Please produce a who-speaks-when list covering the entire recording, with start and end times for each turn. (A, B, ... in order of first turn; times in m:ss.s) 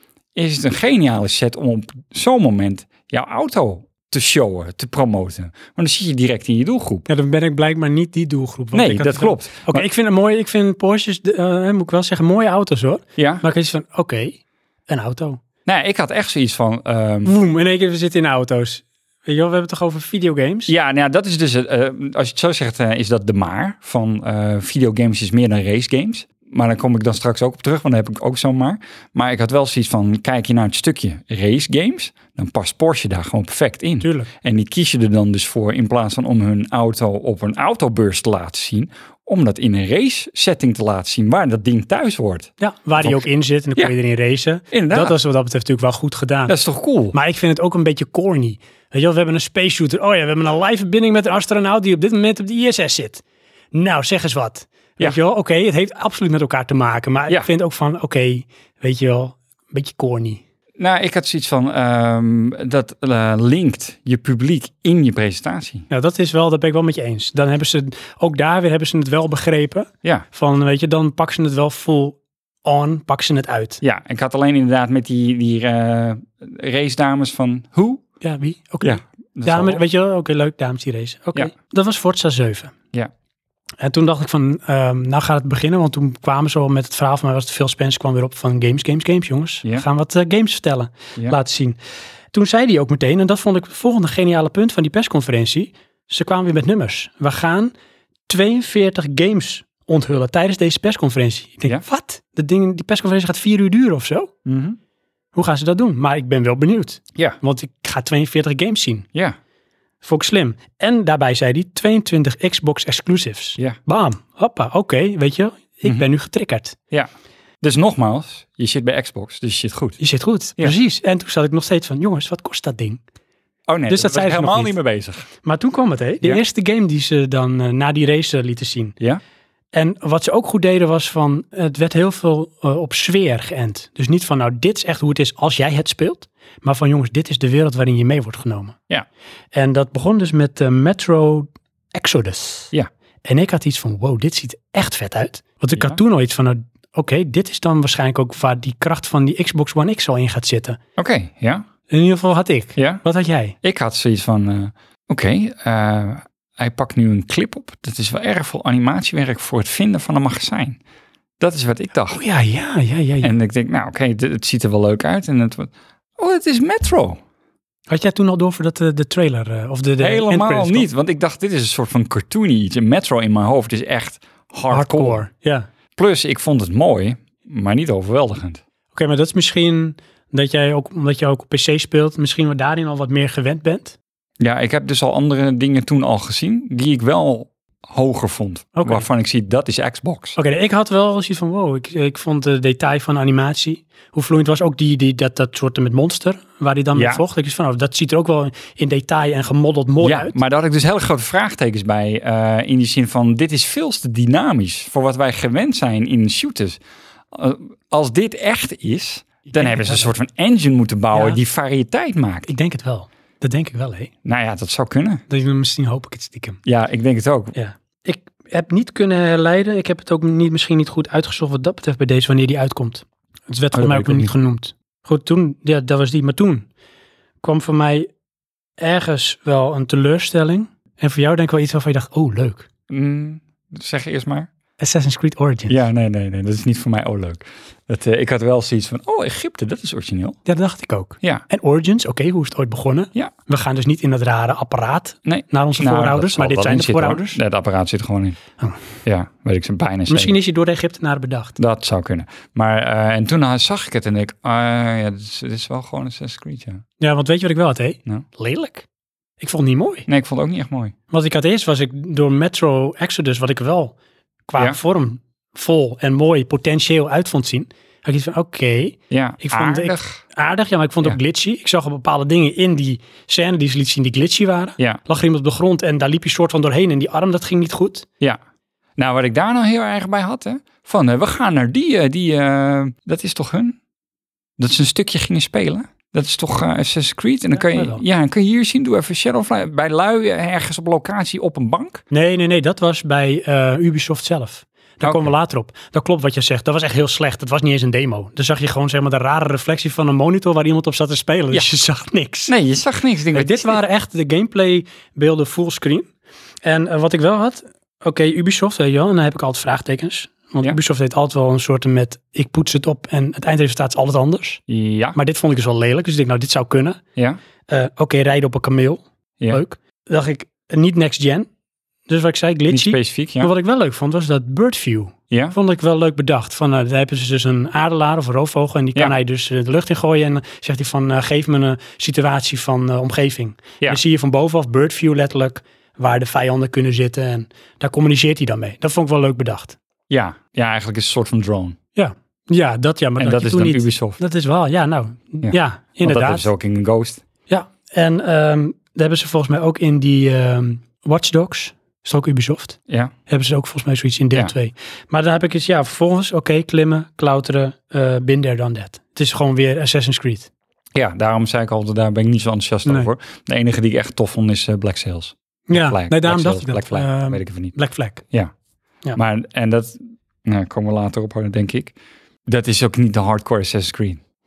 0:00.3-0:07.1 A
0:07.1-0:15.4 B
0:08.7-0:09.8 A
0:13.2-0:13.4 A
0:15.6-0:17.3 A
0:17.2-0:20.7 B
0:20.7-0:43.2 A
0:34.0-0:34.3 B
0:42.6-0:46.6 B
0:44.7-0:45.2 A
0:46.5-0:47.1 A
0:47.1-0:53.2 B
0:53.7-1:00.4 B
1:00.8-1:05.9 A
1:05.9-1:13.8 B
1:13.8-1:18.0 A
1:18.2-1:22.7 B
1:18.8-1:19.8 A
1:23.8-1:31.8 B
1:32.3-1:37.7 B
1:38.3-1:44.3 B
1:44.4-1:44.8 A
1:45.3-1:49.1 B
1:50.0-1:56.8 B
1:57.6-2:00.0 A
2:00.0-2:03.0 B
2:03.7-2:05.3 A
2:03.9-2:04.7 B
2:05.4-2:09.0 B
2:09.7-2:18.8 B
2:19.5-2:22.7 B
2:23.2-2:30.8 B
2:31.0-2:31.7 A
2:31.9-2:33.6 B
2:32.8-2:33.0 A
2:33.6-2:40.8 A
2:41.4-2:42.2 A
2:42.1-2:43.3 B
2:43.2-2:47.2 A
2:47.9-2:50.9 B
2:50.0-2:55.2 A
2:54.7-2:55.7 B
2:56.0-2:58.6 A
2:58.9-3:04.0 B
3:04.4-3:10.4 A
3:08.8-3:09.1 B
3:10.4-3:20.4 B
3:16.9-3:17.2 A
3:20.0-3:26.8 A
3:27.3-3:32.5 A
3:29.5-3:30.1 B
3:31.1-3:31.4 B
3:32.4-3:34.1 B
3:34.2-3:35.2 A
3:35.3-3:36.6 B
3:36.6-3:37.5 A
3:37.5-3:46.7 B
3:43.7-3:44.3 A
3:47.4-3:48.1 B
3:48.8-3:52.7 B
3:52.9-3:54.5 A
3:54.8-3:55.8 B
3:55.7-4:00.4 A
4:00.4-4:07.4 B
4:05.2-4:08.4 A
4:09.0-4:10.4 A
4:10.1-4:11.6 B
4:11.6-4:16.8 A
4:17.0-4:18.8 B
4:19.4-4:20.1 B
4:20.1-4:20.9 A
4:21.1-4:23.9 B
4:24.5-4:38.0 B
4:29.1-4:30.2 A
4:39.0-4:43.8 A
4:44.6-4:52.0 A
4:47.5-4:48.0 B
4:52.1-5:02.5 B
4:55.0-4:55.3 A
5:02.5-5:03.8 A
5:03.3-5:06.1 B
5:06.6-5:14.6 B
5:14.7-5:15.2 A
5:15.1-5:17.0 B
5:17.7-5:21.5 B
5:22.1-5:39.8 B
5:22.7-5:23.5 A
5:25.3-5:25.6 A
5:40.1-5:41.8 A
5:42.0-5:46.5 B
5:43.2-5:44.2 A
5:45.4-5:47.2 A
5:47.5-6:00.5 B
5:52.9-5:53.1 A
6:00.9-6:07.7 A
6:02.8-6:03.1 B
6:05.7-6:08.2 B
6:09.1-6:11.9 A
6:12.5-6:14.2 A